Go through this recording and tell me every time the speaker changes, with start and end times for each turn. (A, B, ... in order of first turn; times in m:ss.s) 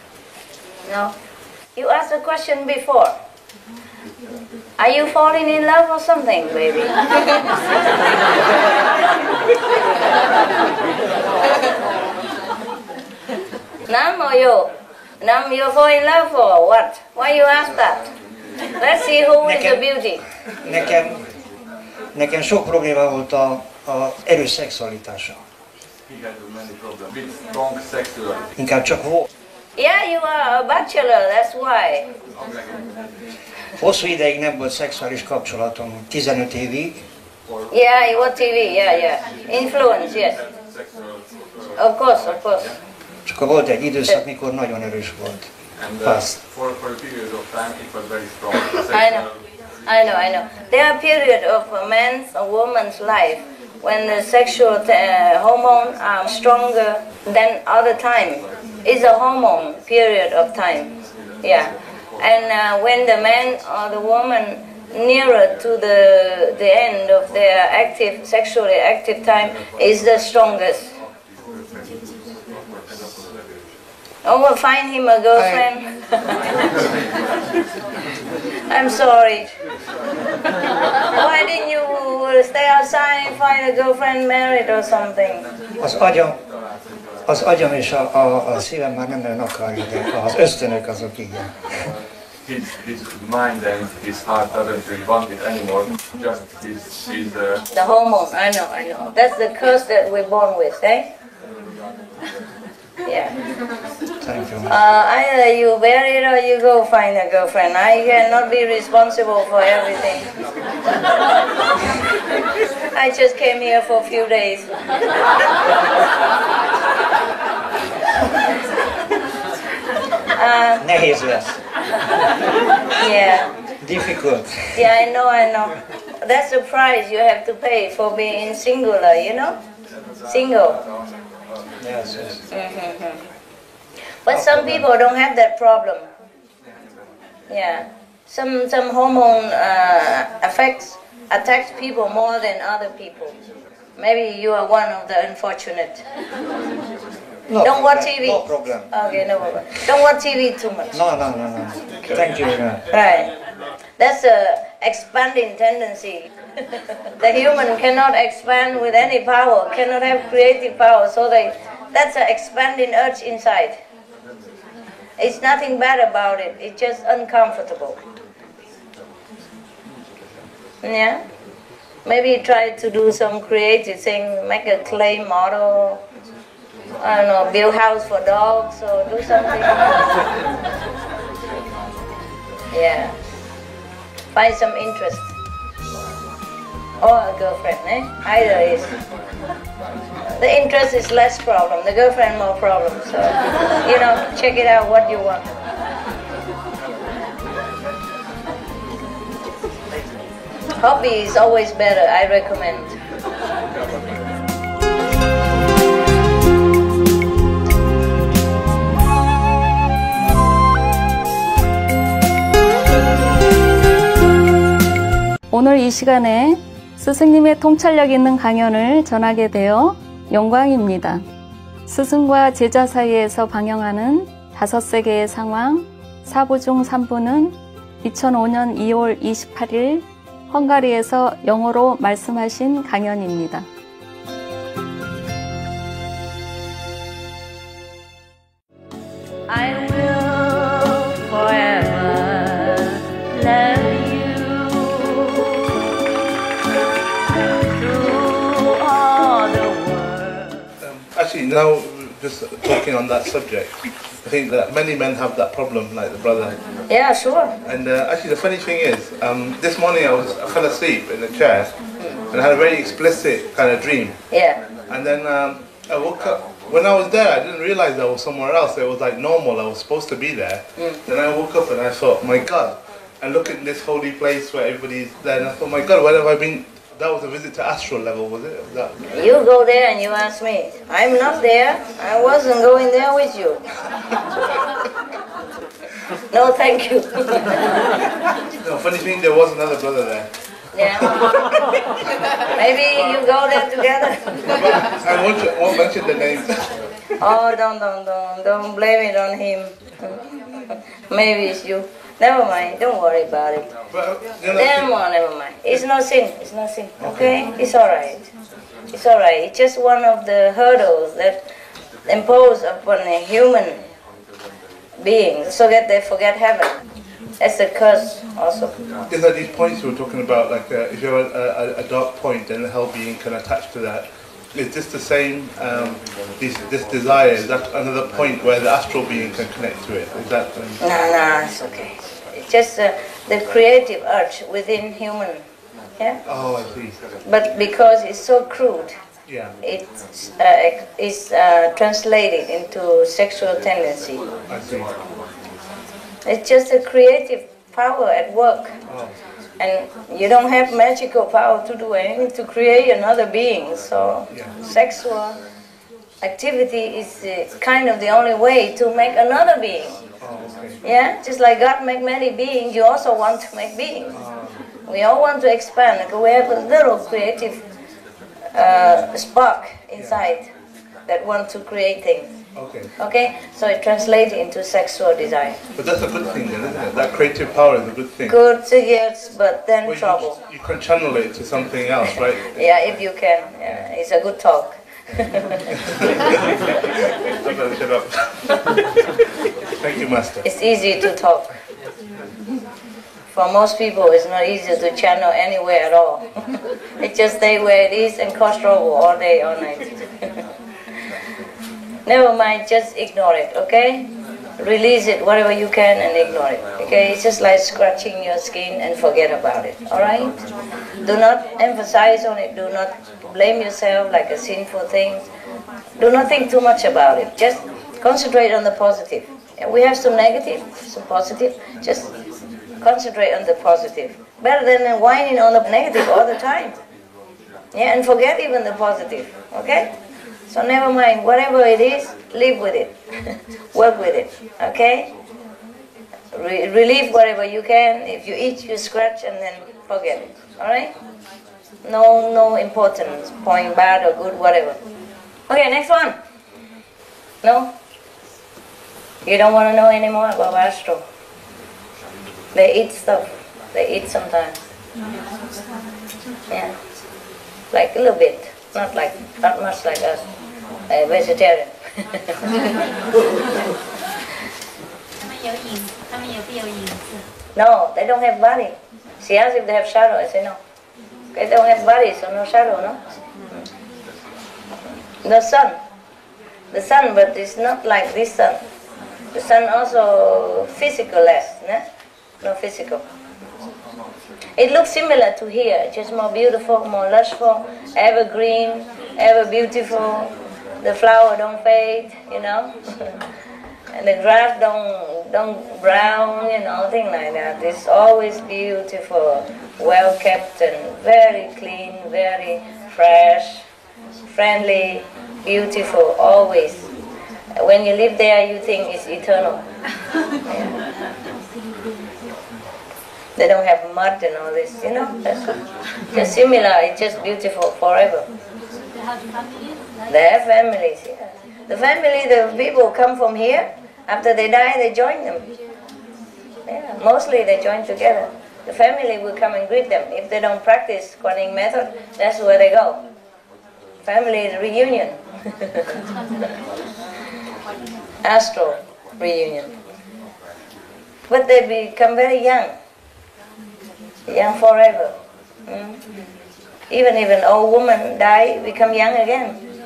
0:00.8-0:01.1 A
0:01.8-0:03.1 A
0:04.8-0:06.9 A
0:13.9-0:14.7 A
0:15.2-0:18.0 A
0:18.8-0:20.2 A
0:19.4-0:19.8 B
0:20.6-0:21.2 B
0:22.1-0:25.4 B
0:26.1-0:28.5 C
0:28.6-0:29.3 B
0:29.8-0:32.1 A
0:32.4-0:32.7 C
0:33.8-0:37.0 B
0:37.5-0:38.7 C
0:37.7-0:40.4 A
0:39.9-0:42.7 C
0:41.8-0:42.7 A
0:43.3-0:45.5 B
0:45.8-0:49.4 C
0:46.0-0:46.4 B
0:48.9-0:49.3 A
0:49.8-1:00.9 A
1:01.4-1:10.9 A
1:14.2-1:15.9 A
1:18.7-1:19.5 A
1:21.1-1:25.4 A
1:25.8-1:26.4 B
1:27.3-1:31.6 B
1:32.4-1:37.6 C
1:37.7-1:41.1 A
1:43.1-1:43.3 A
1:44.2-1:44.7 B
1:44.7-1:50.2 A
1:52.9-1:54.8 A
2:00.4-2:00.8 A
2:00.8-2:01.6 B
2:03.0-2:03.5 A
2:03.8-2:04.8 B
2:04.7-2:09.6 A
2:10.3-2:10.8 A
2:11.8-2:12.4 B
2:12.5-2:13.2 A
2:14.3-2:16.1 A
2:14.3-2:14.8 B
2:17.5-2:23.4 A
2:24.0-2:26.0 A
2:27.5-2:28.9 B
2:27.6-2:31.0 A
2:30.9-2:32.8 B
2:32.9-2:33.3 A
2:34.0-2:36.3 A
2:37.2-2:43.8 A
2:45.2-2:48.0 A
2:50.8-2:51.2 A
2:52.0-2:56.0 A
2:57.0-2:59.9 A
3:02.7-3:03.2 A
3:04.3-3:05.3 A
3:07.0-3:08.9 A
3:10.3-3:15.4 A
3:20.8-3:23.0 A
3:35.5-3:41.2 D
3:41.9-3:53.7 D
3:59.5-4:05.5 A
4:07.8-4:10.7 A
4:10.8-4:16.6 E
4:16.9-4:17.5 A
4:17.7-4:21.7 E
4:22.3-4:24.1 E
4:24.3-4:24.6 A
4:24.9-4:38.9 E
4:39.1-4:43.6 A
4:46.3-4:47.5 A
4:48.6-4:50.3 E
4:50.7-4:51.2 A
4:52.6-4:54.2 A
4:54.6-4:56.7 E
4:57.2-5:00.2 A
5:01.1-5:03.7 A
5:03.9-5:04.9 E
5:04.5-5:08.2 A
5:07.0-5:07.3 E
5:08.9-5:11.4 A
5:12.1-5:13.8 A
5:15.0-5:16.8 A
5:17.4-5:18.7 A
5:19.1-5:30.8 E
5:30.8-5:35.4 A
5:36.3-5:37.0 E
5:37.2-5:39.0 A
5:39.3-5:39.5 E
5:39.6-5:44.2 A
5:44.5-5:44.9 E
5:46.3-5:48.7 A
5:48.9-5:49.1 E
5:49.6-5:55.4 A
5:56.2-6:00.0 A
6:00.2-6:00.8 E
6:00.8-6:04.1 A
6:04.1-6:04.6 E
6:04.9-6:07.6 A
6:08.6-6:10.5 A
6:11.1-6:12.3 A
6:12.6-6:12.9 E
6:13.0-6:15.6 A
6:15.8-6:18.4 E
6:18.3-6:20.4 A
6:19.8-6:22.7 E
6:22.6-6:25.6 A
6:26.0-6:26.4 E
6:27.3-6:28.3 E
6:29.8-6:30.4 E
6:30.4-6:31.6 A
6:33.3-6:36.2 A
6:37.0-6:40.0 A
6:42.1-6:44.0 A
6:44.6-6:50.3 A
6:51.0-6:55.3 A
6:56.0-7:02.1 A
7:02.8-7:06.8 A
7:07.7-7:09.9 A
7:10.5-7:12.9 A
7:13.7-7:15.1 A
7:16.3-7:20.9 A
7:21.8-7:24.8 A
7:25.5-7:26.2 A
7:27.4-7:27.7 A
7:29.2-7:31.0 A
7:32.5-7:34.6 A
7:37.7-7:40.2 A
7:40.9-7:41.7 A
7:47.6-7:50.6 A
7:51.3-7:53.0 A
7:55.2-7:55.8 A
7:56.7-7:58.6 A
7:59.3-8:01.8 A
8:02.4-8:03.0 A
8:04.6-8:10.3 A
8:10.8-8:13.1 A
8:13.9-8:23.6 A
8:24.3-8:26.8 A
8:27.6-8:29.6 A
8:30.5-8:30.8 A
8:33.4-8:35.5 A
8:36.1-8:38.2 A
8:40.1-8:45.4 A
8:46.7-8:53.0 A
8:54.0-8:55.2 A
8:58.2-8:59.7 A
9:01.3-9:02.7 A
9:04.3-9:05.1 A
9:05.7-9:06.0 A
9:06.9-9:09.6 A